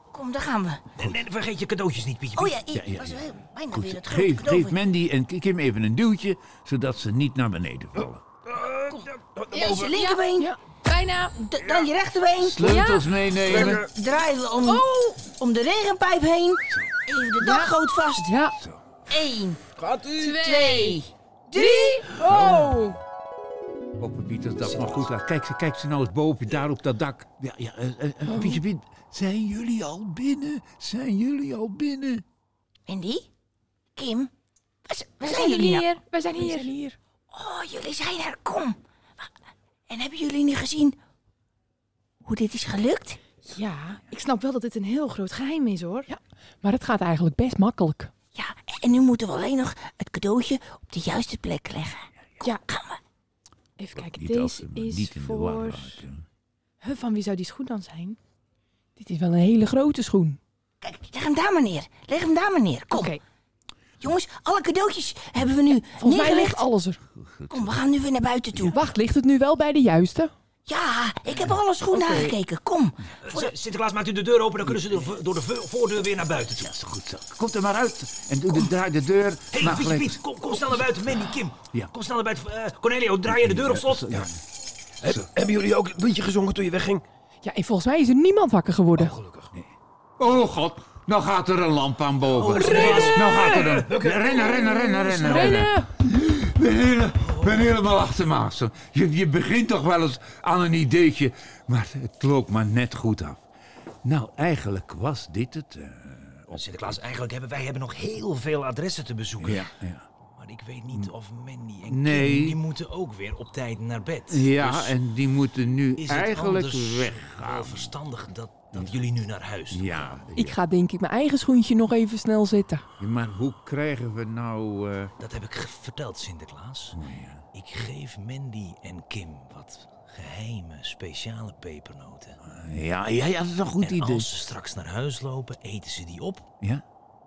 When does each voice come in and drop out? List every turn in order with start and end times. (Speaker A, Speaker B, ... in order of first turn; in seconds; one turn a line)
Speaker A: 0.1-0.8
Speaker B: 0.9-2.6
Speaker A: 2.4-4.8
Speaker C: 2.7-8.2
Speaker D: 8.5-9.9
Speaker A: 9.5-10.5
Speaker E: 9.5-10.2
Speaker E: 10.8-11.3
Speaker A: 11.4-18.3
Speaker C: 12.4-13.8
Speaker E: 12.7-12.9
Speaker D: 13.5-13.8
Speaker E: 14.6-15.2
Speaker E: 17.4-17.7
Speaker F: 18.2-18.6
Speaker A: 19.1-19.6
Speaker D: 19.8-20.4
Speaker E: 20.2-21.0
Speaker A: 20.3-22.1
Speaker F: 21.6-22.9
Speaker E: 21.6-22.1
Speaker C: 22.2-22.8
Speaker C: 24.0-32.2
Speaker B: 24.6-25.1
Speaker A: 32.9-33.3
Speaker A: 34.0-34.3
Speaker A: 34.9-35.9
Speaker E: 35.2-36.7
Speaker F: 35.3-37.0
Speaker A: 37.3-39.3
Speaker A: 39.9-41.0
Speaker A: 42.2-43.2
Speaker E: 43.4-46.1
Speaker F: 46.1-48.1
Speaker A: 48.3-53.0
Speaker E: 53.8-56.0
Speaker C: 54.1-56.2
Speaker E: 56.8-58.2
Speaker F: 59.0-60.4
Speaker A: 60.8-63.1
Speaker E: 62.9-63.2
Speaker A: 64.0-66.7
Speaker F: 66.0-67.0
Speaker C: 67.2-67.8
Speaker A: 67.5-68.8
Speaker F: 68.7-70.3
Speaker A: 70.7-73.5
Speaker E: 71.9-72.3
Speaker B: 73.2-76.7
Speaker C: 76.5-80.2
Speaker B: 79.5-84.3
Speaker C: 83.3-84.4
Speaker D: 85.0-87.0
Speaker F: 87.4-89.2
Speaker D: 89.0-89.5
Speaker C: 90.2-103.4
Speaker B: 92.3-94.2
Speaker D: 92.6-94.2
Speaker F: 94.8-95.9
Speaker B: 97.2-97.7
Speaker C: 104.0-106.6
Speaker B: 106.5-109.7
Speaker C: 109.4-110.0
Speaker B: 110.3-114.9
Speaker C: 111.8-112.6
Speaker C: 114.3-117.9
Speaker B: 116.0-120.2
Speaker C: 119.7-120.6
Speaker F: 120.3-122.8
Speaker C: 123.0-125.1
Speaker B: 125.2-127.0
Speaker C: 126.9-127.4
Speaker B: 127.5-132.4
Speaker C: 132.4-134.4
Speaker B: 133.8-136.4